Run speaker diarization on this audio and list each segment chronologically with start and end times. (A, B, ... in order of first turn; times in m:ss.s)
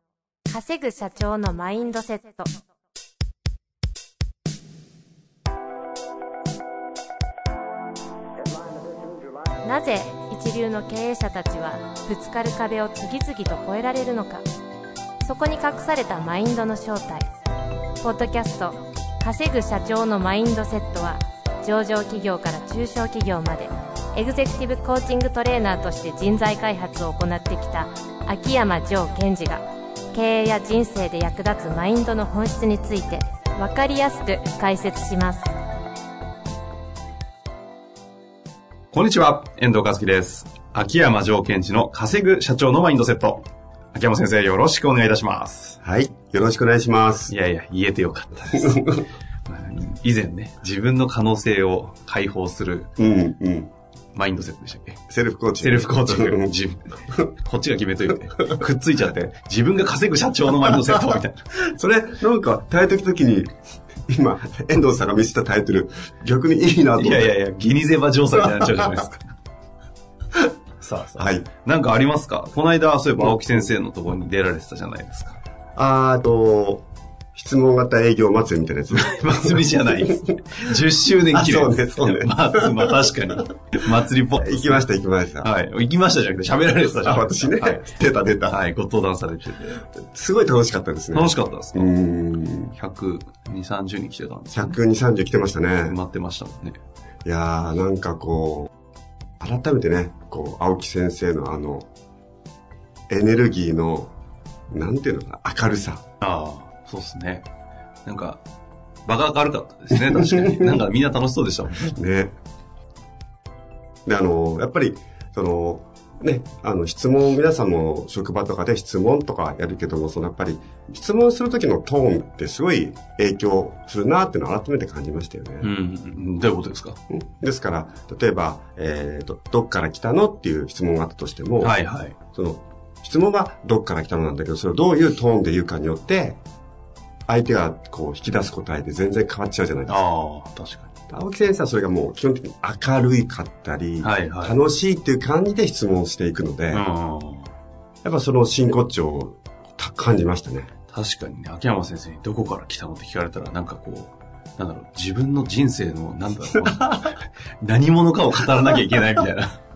0:00.5-0:02.5 A
0:09.6-0:14.4 A
0:15.2-0:17.2 A
0:18.0-0:35.5 A
0:38.9-0:45.8 B
0:45.8-0:47.3 C
0:47.3-0:52.9 B
0:48.6-0:49.0 C
0:53.0-0:53.7 C
0:54.1-0:55.0 B
0:55.1-0:56.5 C
0:55.6-1:01.4 B
1:01.5-1:03.5 C
1:04.1-1:07.3 C
1:07.0-1:09.2 B
1:08.4-1:08.9 C
1:10.8-1:15.4 B
1:11.2-1:11.5 C
1:15.8-1:20.6 C
1:18.9-1:24.8 B
1:21.3-1:22.9 C
1:24.4-1:25.5 C
1:25.4-1:27.8 B
1:27.0-1:28.6 C
1:28.5-1:29.8 B
1:30.1-1:32.7 C
1:31.1-1:31.9 B
1:32.7-1:34.8 B
1:34.5-1:36.0 C
1:35.8-1:36.8 B
1:37.2-1:38.7 C
1:39.4-1:41.8 C
1:43.1-1:44.1 C
1:44.7-1:46.0 C
1:46.2-1:47.5 B
1:48.0-1:48.4 B
1:49.0-1:52.0 B
1:50.0-1:50.8 C
1:51.9-1:52.3 C
1:54.0-2:05.7 C
2:05.6-2:07.0 B
2:07.1-2:11.8 C
2:11.6-2:12.1 B
2:12.3-2:16.4 C
2:17.3-2:20.0 C
2:19.9-2:20.9 B
2:21.1-2:26.8 C
2:24.0-2:24.6 B
2:26.7-2:27.5 B
2:28.0-2:30.7 C
2:30.9-2:39.6 B
2:36.6-2:37.1 C